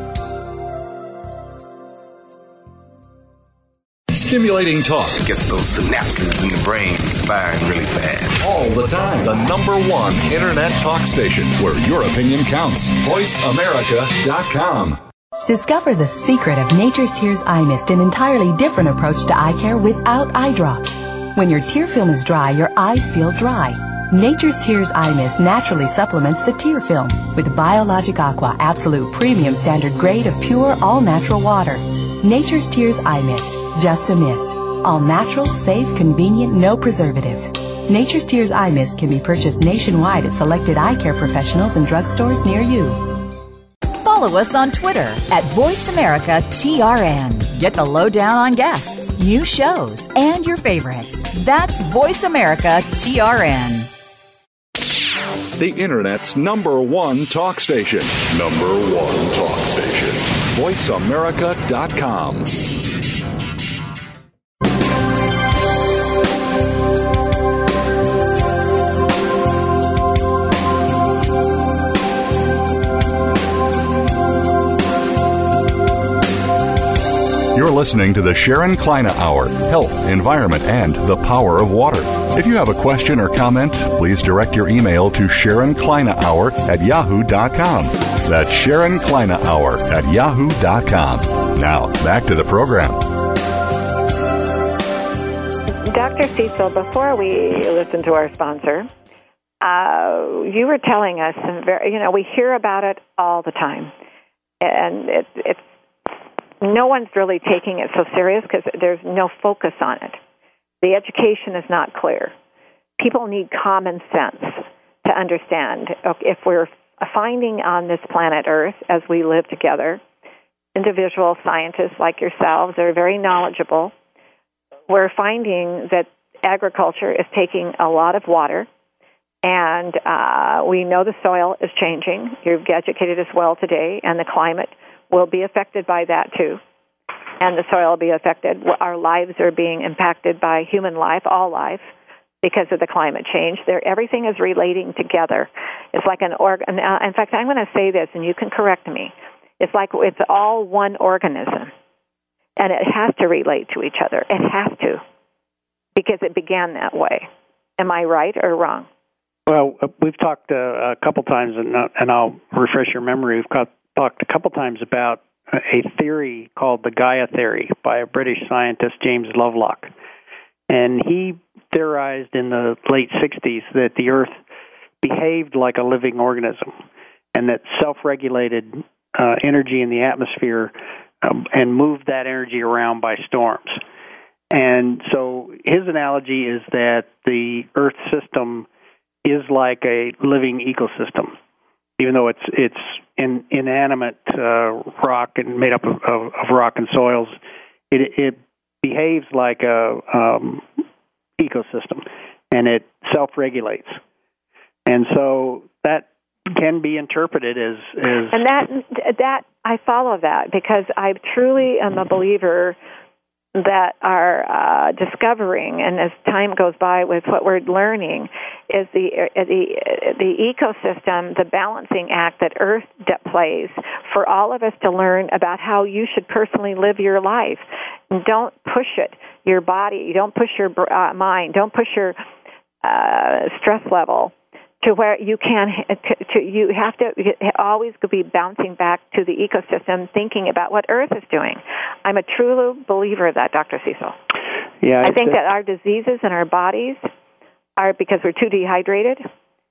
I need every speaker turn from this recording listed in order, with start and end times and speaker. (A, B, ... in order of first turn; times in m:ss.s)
0:04.1-0:05.2 A
0:05.1-0:08.4 B
0:08.4-0:15.0 A
0:15.5-0:43.1 C
0:44.0-0:53.9 D
0:55.6-1:02.5 A
1:17.5-1:33.0 A
1:35.8-1:38.9 E
1:39.6-1:43.9 E
1:44.6-1:45.6 E
1:46.6-1:50.2 E
1:50.8-1:52.3 E
1:53.0-2:00.0 E
2:00.7-2:03.9 E
2:04.9-2:08.7 E
2:09.4-2:16.6 E
2:17.4-2:21.9 E
2:22.4-2:31.7 E
2:32.6-2:35.0 E
2:36.0-2:38.9 E
2:39.5-2:49.9 F
2:50.7-2:54.3 F
2:55.0-2:56.8 F
2:57.3-3:03.8 F
3:04.5-3:08.7 F
3:09.2-3:11.4 F
3:12.0-3:17.4 F
3:17.9-3:20.8 F
3:21.4-3:24.0 F
3:24.8-3:28.4 F
3:28.3-3:32.8 E
3:33.5-3:52.2 E
3:52.8-4:04.2 E
4:04.8-4:05.4 F
4:05.0-4:07.1 E
4:07.8-4:09.2 E